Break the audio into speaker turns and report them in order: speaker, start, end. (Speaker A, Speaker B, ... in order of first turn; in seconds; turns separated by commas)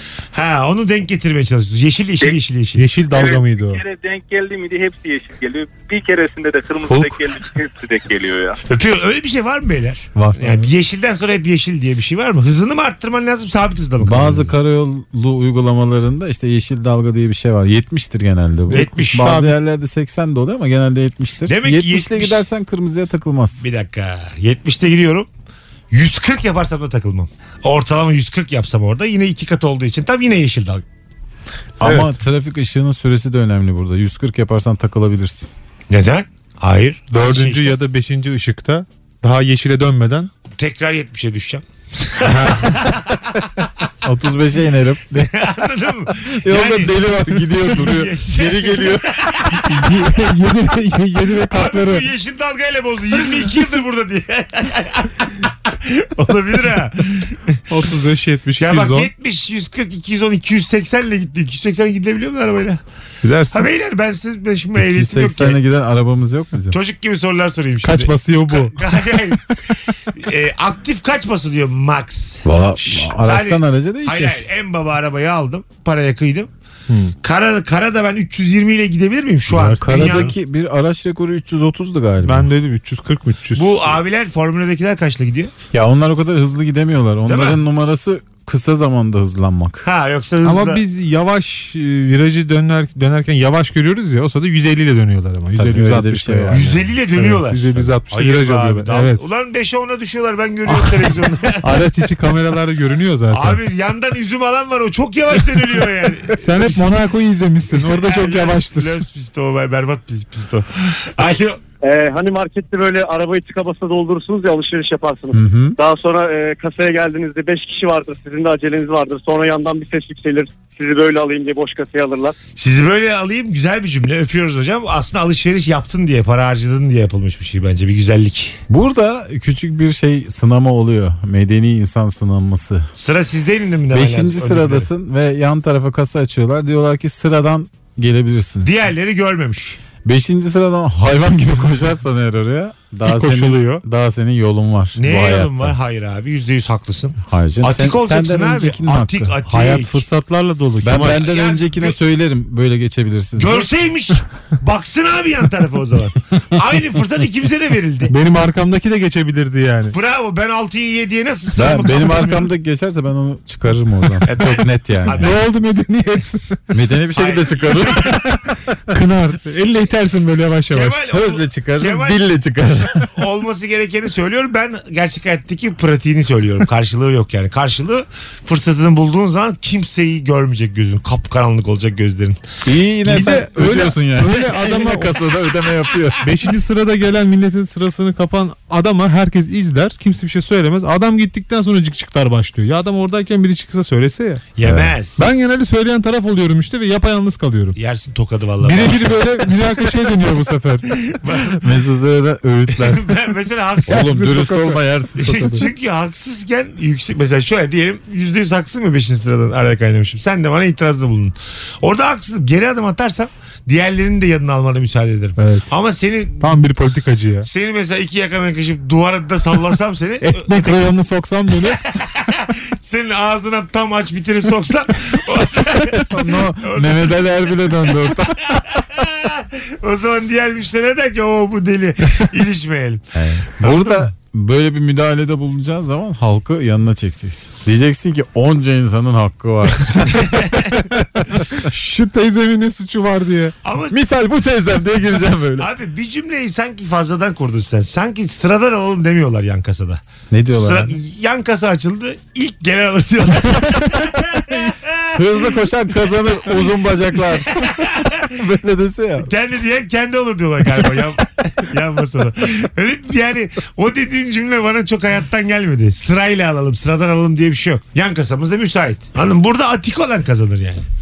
Speaker A: 0.3-2.9, Speaker B: 2.8-3.8, Speaker C: 3.1-8.6, Speaker D: 6.9-7.2, Speaker A: 8.7-14.5, Speaker D: 10.1-10.7, Speaker D: 14.0-23.6, Speaker A: 18.7-19.4, Speaker B: 18.8-19.5, Speaker A: 21.5-22.4, Speaker A: 23.6-25.3, Speaker A: 25.9-30.8, Speaker D: 31.8-35.5, Speaker B: 31.8-32.1, Speaker A: 35.9-37.7, Speaker B: 37.1-40.3, Speaker A: 40.5-43.2, Speaker B: 42.2-42.8, Speaker D: 44.0-45.4, Speaker A: 45.2-49.9, Speaker D: 46.4-49.1, Speaker B: 49.6-52.0, Speaker A: 51.4-57.6, Speaker B: 57.7-59.1, Speaker A: 58.6-62.8, Speaker B: 63.2-63.7, Speaker A: 63.5-65.6, Speaker D: 64.8-66.8, Speaker A: 66.7-69.4, Speaker B: 67.8-69.2, Speaker A: 70.1-76.5, Speaker D: 72.4-74.5, Speaker B: 76.9-77.1, Speaker A: 77.2-80.3, Speaker B: 79.5-80.3, Speaker D: 79.8-82.5, Speaker B: 82.2-84.0, Speaker A: 83.5-85.5, Speaker D: 85.7-89.8, Speaker A: 87.2-87.6, Speaker A: 89.8-90.8, Speaker B: 90.4-96.6, Speaker D: 95.5-96.9, Speaker A: 96.5-101.8, Speaker B: 97.1-99.2, Speaker B: 100.7-103.6, Speaker A: 103.3-106.9, Speaker B: 106.4-109.0, Speaker A: 107.7-111.6, Speaker E: 111.8-122.3, Speaker D: 115.3-115.8, Speaker A: 122.5-128.6, Speaker D: 128.7-132.9, Speaker A: 133.0-134.9, Speaker D: 133.9-138.8, Speaker A: 138.6-139.8, Speaker D: 140.0-145.7, Speaker B: 143.0-143.8, Speaker A: 145.0-150.0, Speaker D: 147.3-149.4, Speaker B: 149.4-151.2, Speaker D: 150.8-153.7, Speaker A: 151.1-151.9, Speaker A: 153.4-158.1, Speaker B: 158.1-159.9, Speaker A: 159.9-162.5, Speaker D: 161.5-165.3, Speaker A: 164.2-165.4, Speaker B: 165.1-166.5, Speaker D: 166.7-168.5, Speaker A: 167.1-168.2, Speaker B: 168.1-168.3, Speaker B: 168.9-171.0, Speaker A: 170.7-172.2, Speaker D: 171.0-173.1, Speaker A: 173.0-182.4, Speaker D: 182.6-186.3, Speaker A: 183.1-183.4, Speaker B: 183.1-185.1, Speaker A: 184.2-185.0, Speaker B: 186.2-194.4, Speaker A: 194.6-195.2, Speaker D: 194.6-194.9, Speaker B: 195.2-197.8, Speaker A: 197.8-199.3, Speaker B: 198.6-200.9, Speaker A: 201.0-201.6, Speaker D: 201.6-203.1, Speaker A: 202.8-204.2, Speaker D: 203.8-205.7, Speaker B: 203.9-205.7, Speaker A: 205.2-216.6, Speaker B: 215.4-215.7, Speaker B: 216.4-217.5, Speaker A: 217.4-220.7, Speaker B: 220.2-221.8, Speaker A: 221.7-227.3, Speaker D: 226.1-228.7, Speaker A: 228.6-233.0, Speaker D: 233.1-240.5, Speaker A: 233.6-234.0, Speaker A: 240.2-240.7, Speaker B: 240.9-243.5, Speaker A: 243.6-244.0, Speaker D: 243.9-245.7, Speaker A: 245.6-255.5, Speaker D: 250.3-251.0, Speaker D: 255.2-259.3, Speaker A: 257.4-258.3, Speaker A: 259.2-270.8